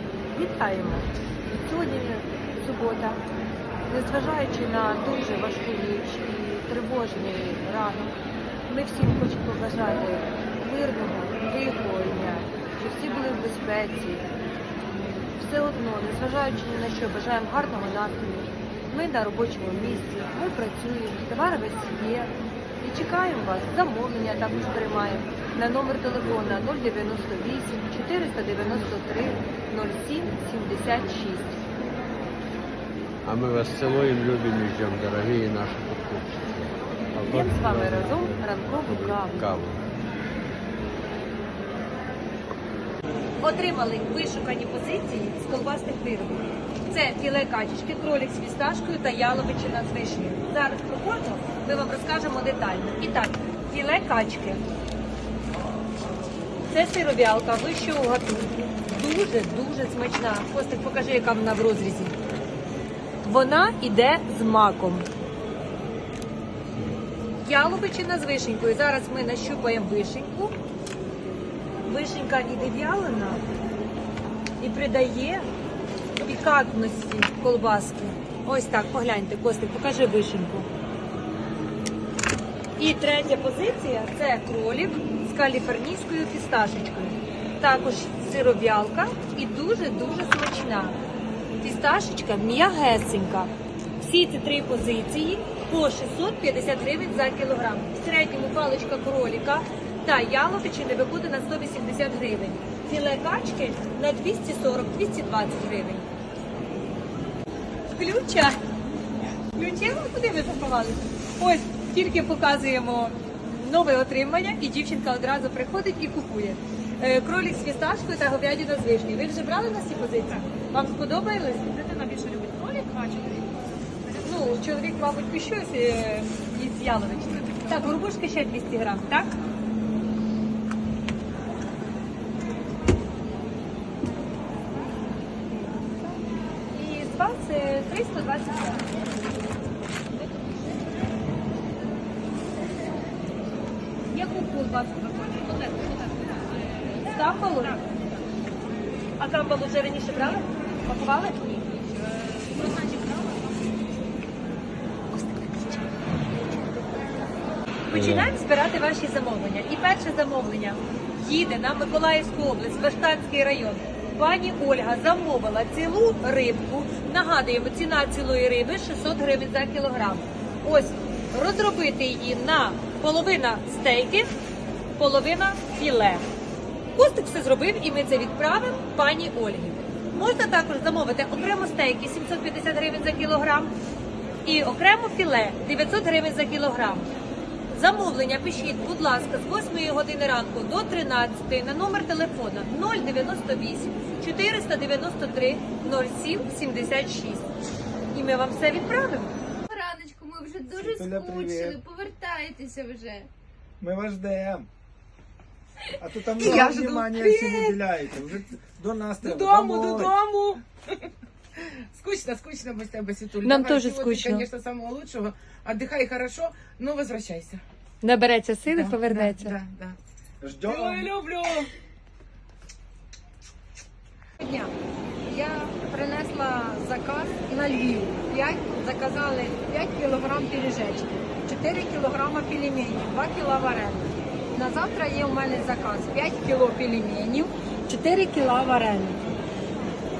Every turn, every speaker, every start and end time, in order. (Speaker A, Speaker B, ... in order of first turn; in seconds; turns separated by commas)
Speaker A: 0.3-3.2, Speaker A: 3.9-8.2, Speaker A: 8.7-14.3, Speaker A: 15.3-31.6, Speaker B: 33.2-39.8, Speaker A: 37.2-39.5, Speaker A: 43.4-54.6, Speaker A: 56.7-62.1, Speaker A: 63.2-65.1, Speaker A: 67.4-70.5, Speaker A: 71.8-73.4, Speaker A: 74.6-75.5, Speaker A: 76.2-80.7, Speaker A: 82.8-91.0, Speaker A: 91.6-106.0, Speaker A: 107.9-108.6, Speaker A: 109.5-123.5, Speaker A: 124.1-129.3, Speaker A: 135.9-136.1, Speaker A: 136.7-138.8, Speaker A: 144.1-146.2, Speaker A: 147.0-147.8, Speaker A: 149.2-151.7, Speaker A: 155.1-155.8, Speaker A: 156.5-157.1, Speaker A: 157.9-174.3, Speaker B: 157.9-158.3, Speaker A: 175.0-176.2, Speaker A: 176.9-183.7, Speaker A: 184.4-187.1, Speaker A: 187.7-197.4, Speaker A: 198.1-199.3, Speaker C: 199.7-203.3, Speaker D: 200.8-201.8, Speaker D: 203.8-204.7, Speaker D: 205.9-210.1, Speaker A: 206.4-206.8, Speaker E: 206.5-207.8, Speaker E: 209.2-210.6, Speaker E: 211.6-217.6, Speaker A: 213.4-214.5, Speaker A: 218.0-219.6, Speaker E: 218.7-220.0, Speaker D: 220.4-221.1, Speaker E: 220.6-221.7, Speaker F: 224.4-224.7, Speaker F: 225.2-239.2